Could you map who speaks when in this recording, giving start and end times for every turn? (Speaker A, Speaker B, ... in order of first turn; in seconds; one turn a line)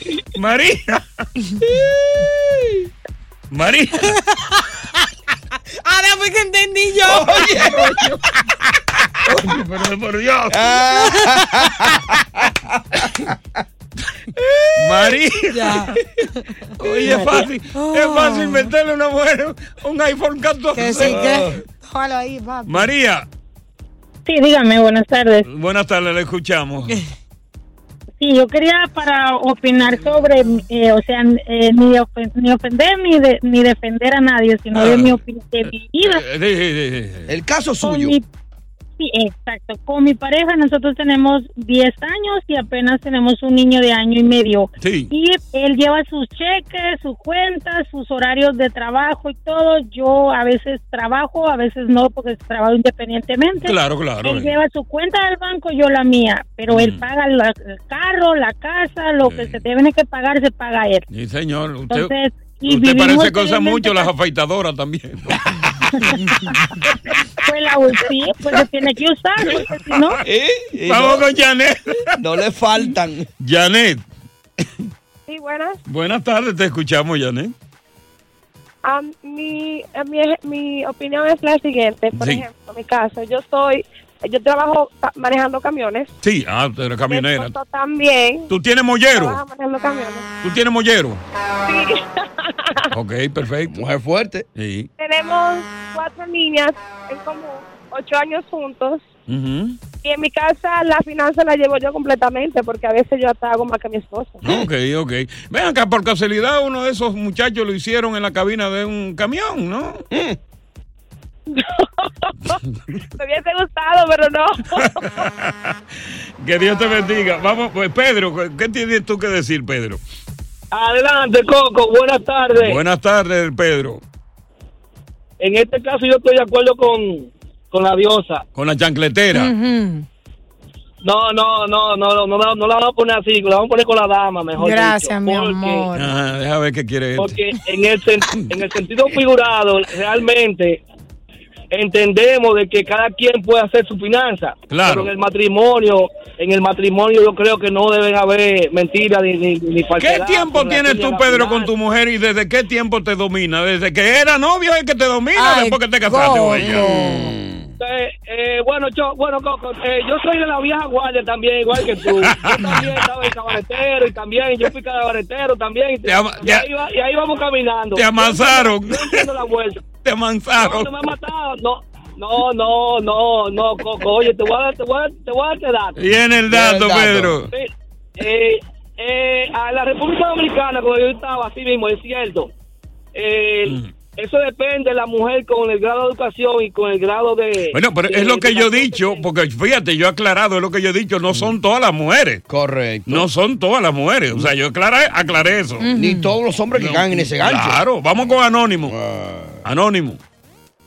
Speaker A: 0.3-1.3
Speaker B: 1.6-2.9
Speaker A: 3.5-4.2
Speaker C: 5.8-7.5
Speaker B: 7.0-8.2
Speaker A: 7.6-8.2
Speaker A: 9.2-10.8
Speaker B: 10.5-13.4
Speaker C: 11.0-12.0
Speaker B: 14.3-15.2
Speaker A: 14.8-16.0
Speaker C: 15.5-15.9
Speaker C: 16.5-18.7
Speaker A: 16.8-21.2
Speaker C: 20.8-22.9
Speaker B: 21.0-21.6
Speaker A: 22.7-23.3
Speaker D: 24.2-25.5
Speaker A: 25.5-27.0
Speaker D: 28.2-36.2
Speaker A: 34.7-35.2
Speaker A: 36.0-37.3
Speaker B: 37.3-38.2
Speaker D: 37.8-38.2
Speaker D: 39.0-61.0
Speaker A: 44.8-45.1
Speaker A: 53.6-54.5
Speaker A: 56.7-57.0
Speaker A: 59.2-59.6
Speaker A: 61.1-62.1
Speaker D: 61.9-64.1
Speaker A: 62.6-65.4
Speaker D: 67.4-70.2
Speaker A: 69.4-70.2
Speaker B: 70.2-71.3
Speaker A: 70.8-72.1
Speaker B: 72.2-73.3
Speaker A: 73.4-74.0
Speaker E: 75.3-75.8
Speaker A: 75.9-77.5
Speaker E: 78.8-86.1
Speaker A: 82.2-82.4
Speaker A: 86.2-87.5
Speaker E: 87.1-88.5
Speaker A: 88.5-89.4
Speaker E: 89.1-90.3
Speaker A: 90.4-91.2
Speaker E: 91.7-92.9
Speaker A: 92.9-93.8
Speaker B: 93.7-94.5
Speaker A: 94.6-94.9
Speaker E: 95.0-99.0
Speaker A: 99.3-99.8
Speaker E: 100.0-104.4
Speaker A: 104.4-110.0
Speaker B: 110.1-110.4
Speaker E: 111.5-112.6
Speaker E: 113.2-115.1
Speaker A: 115.2-115.8
Speaker A: 116.4-120.0
Speaker F: 120.7-122.8
Speaker A: 122.5-124.0
Speaker F: 125.4-128.4
Speaker A: 128.6-129.5
Speaker C: 129.3-130.1
Speaker F: 131.0-135.9
Speaker C: 134.6-136.1
Speaker A: 135.9-137.4
Speaker F: 137.2-140.8
Speaker F: 141.7-151.7
Speaker A: 144.7-145.1
Speaker A: 150.0-156.9
Speaker C: 155.4-157.3
Speaker B: 156.6-157.7
Speaker F: 157.8-169.8
Speaker A: 162.1-163.3
Speaker A: 166.1-166.7
Speaker A: 167.9-169.2
Speaker A: 170.0-170.9
Speaker F: 170.6-176.0
Speaker A: 176.0-177.5
Speaker B: 176.5-177.4
Speaker F: 177.5-182.5
Speaker F: 183.1-189.3
Speaker A: 187.7-192.4
Speaker B: 192.5-193.3
Speaker A: 193.1-195.9
Speaker C: 195.8-196.4
Speaker B: 195.9-197.8
Speaker A: 196.7-199.0
Speaker B: 198.9-199.7
Speaker A: 199.7-200.2